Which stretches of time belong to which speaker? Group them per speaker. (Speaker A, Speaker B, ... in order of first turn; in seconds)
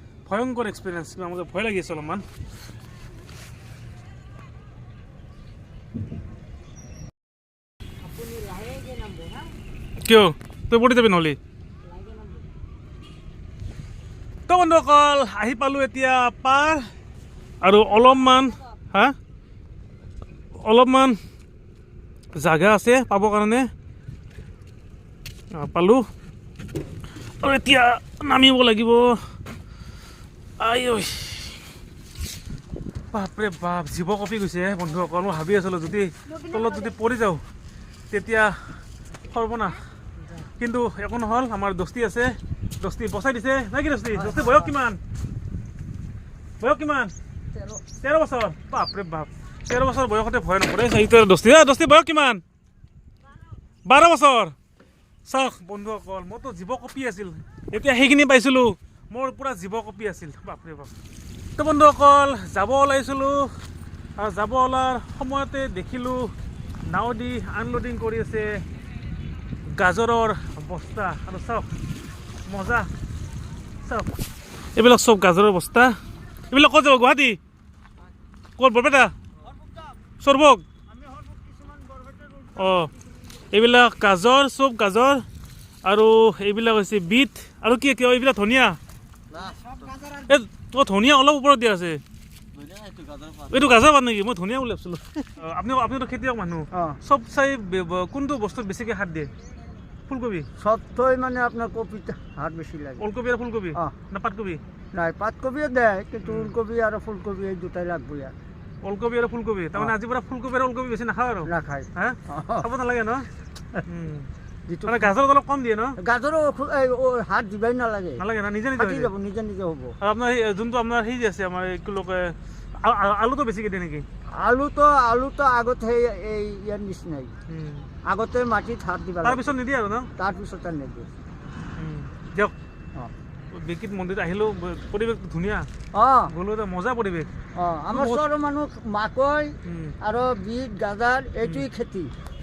Speaker A: 0.3-2.2, 10.0-11.4, 14.5-16.9, 17.6-19.2, 20.6-21.2, 22.4-23.7, 25.5-26.1, 27.4-29.2, 30.6-31.6, 33.1-37.4, 38.1-38.6, 39.3-39.8, 40.6-45.0, 46.6-47.1, 47.9-52.4, 53.9-54.5, 55.3-61.0, 61.6-63.5, 64.2-66.3, 66.9-68.6, 69.8-71.7, 72.5-72.9, 73.8-74.1, 74.8-76.0, 76.5-77.4, 78.6-79.1, 80.2-80.7, 82.5-82.9, 83.5-85.2, 85.8-88.8, 90.2-92.0, 93.5-99.3, 100.1-100.5, 103.0-104.6, 106.2-106.5, 108.8-113.3, 113.9-114.3, 114.9-116.0, 118.2-119.1, 120.0-124.0, 127.5-127.9, 129.2-130.1, 131.8-132.5, 133.5-135.7, 136.3-137.3, 137.9-138.2, 139.7-140.0
Speaker B: 8.1-9.5, 11.9-12.4, 92.9-93.3
Speaker C: 44.3-44.7, 47.5-47.8, 81.1-82.5, 96.7-97.0, 100.6-103.1, 104.9-108.3, 111.5-112.7, 114.7-115.1, 116.0-118.2, 118.8-120.0, 124.3-127.3, 128.1-129.5, 130.2-131.1, 135.9-136.3, 137.6-142.1